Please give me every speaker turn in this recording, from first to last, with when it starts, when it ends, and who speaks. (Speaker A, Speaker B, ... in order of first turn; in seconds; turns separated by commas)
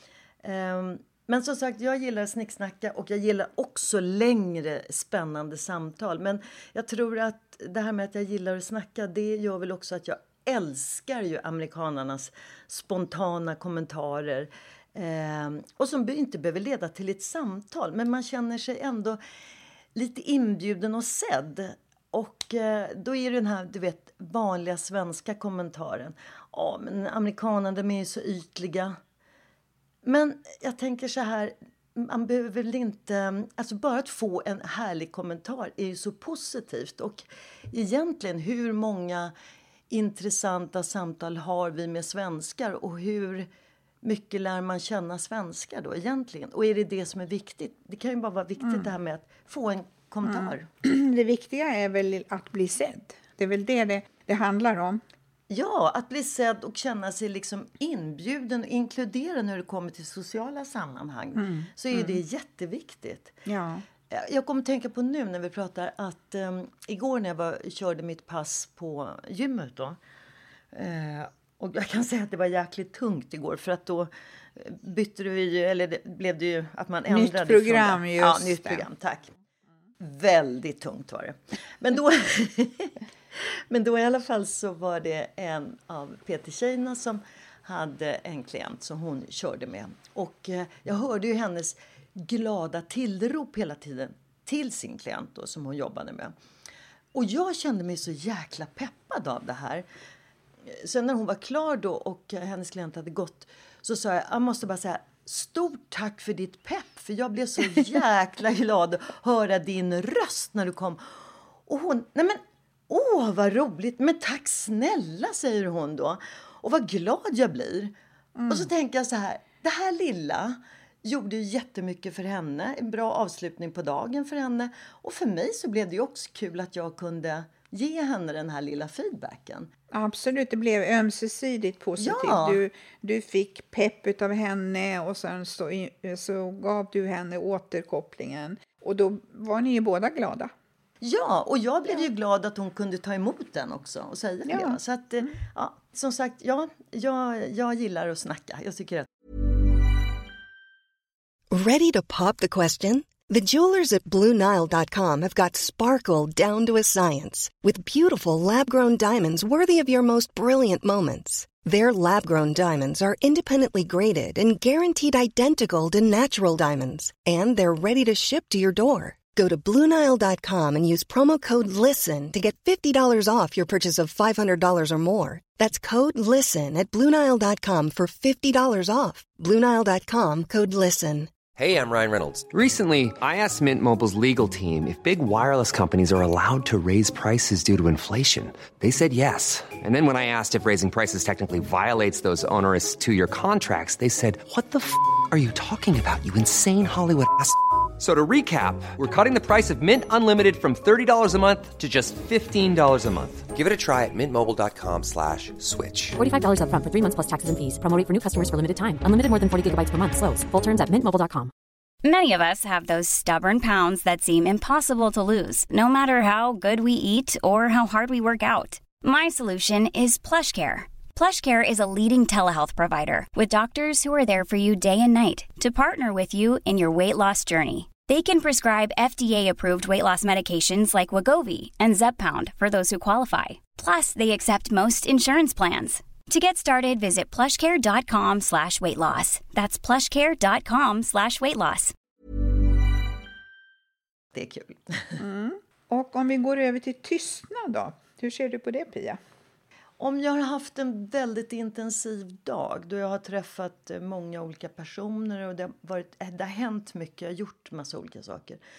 Speaker A: 0.4-19.2, Speaker A: 19.9-29.0, Speaker A: 30.0-39.3, Speaker A: 39.9-43.5, Speaker A: 44.0-50.7, Speaker B: 48.6-48.9, Speaker B: 50.2-55.0, Speaker A: 55.5-63.4, Speaker B: 61.3-62.2, Speaker B: 63.5-63.8, Speaker A: 64.1-70.0, Speaker A: 70.7-79.3, Speaker B: 77.1-78.8, Speaker A: 80.0-96.3, Speaker A: 97.1-99.8, Speaker A: 100.7-111.1, Speaker A: 111.7-117.9, Speaker B: 118.3-118.7, Speaker A: 118.5-129.7, Speaker B: 129.9-140.5, Speaker A: 132.0-132.6, Speaker A: 141.0-149.1, Speaker B: 144.4-145.3, Speaker C: 151.5-181.3, Speaker D: 181.5-206.2, Speaker E: 206.2-211.5, Speaker F: 212.0-241.9, Speaker A: 244.3-245.2, Speaker B: 245.2-249.2, Speaker A: 250.0-258.6